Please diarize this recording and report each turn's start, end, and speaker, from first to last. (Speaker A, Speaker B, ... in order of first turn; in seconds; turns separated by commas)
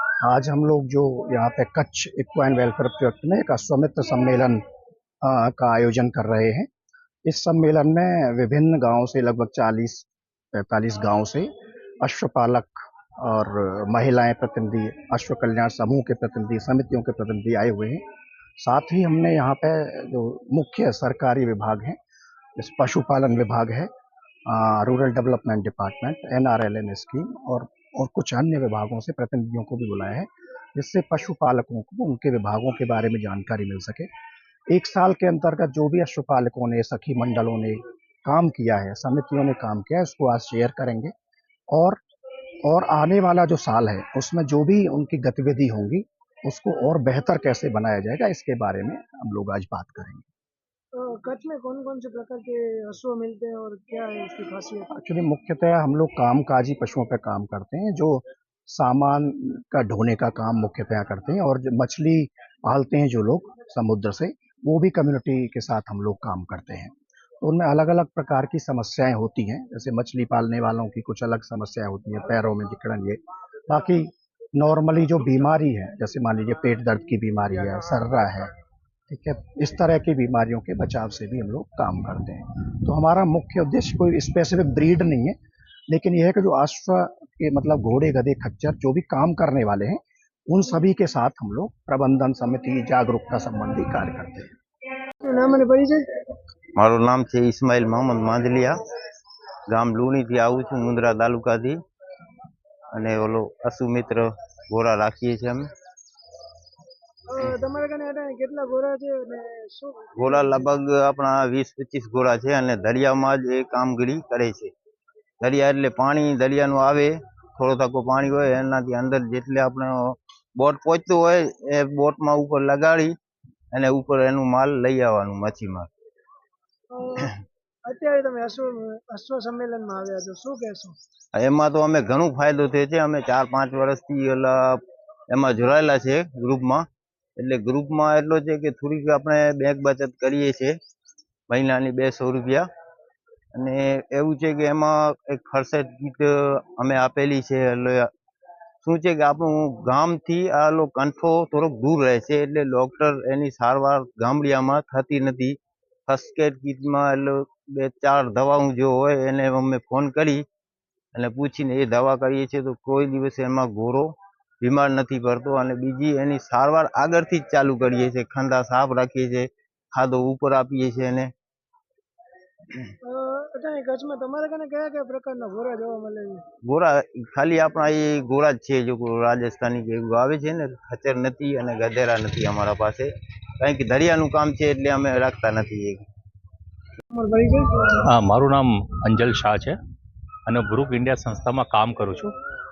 Speaker A: 0.2-4.6, Speaker A: 5.2-6.7, Speaker A: 7.2-11.5, Speaker A: 12.0-18.0, Speaker A: 18.6-22.0, Speaker A: 22.6-23.9, Speaker A: 24.5-34.1, Speaker A: 34.7-41.1, Speaker A: 41.7-42.0, Speaker A: 42.6-50.3, Speaker B: 50.9-54.9, Speaker A: 54.9-78.5, Speaker A: 79.1-85.3, Speaker A: 85.9-94.5, Speaker B: 95.2-96.0, Speaker C: 96.8-98.8, Speaker C: 99.7-101.8, Speaker C: 102.9-105.7, Speaker B: 107.3-110.7, Speaker C: 110.2-114.7, Speaker C: 115.4-123.1, Speaker C: 123.7-125.9, Speaker B: 126.9-127.3, Speaker B: 127.8-131.0, Speaker C: 131.3-136.8, Speaker C: 137.4-140.8, Speaker C: 141.5-142.7, Speaker C: 143.5-148.1, Speaker C: 148.8-160.4, Speaker C: 161.1-171.3, Speaker B: 173.0-176.4, Speaker C: 176.6-186.0, Speaker B: 187.1-188.1, Speaker D: 188.1-189.8, Speaker D: 190.5-192.3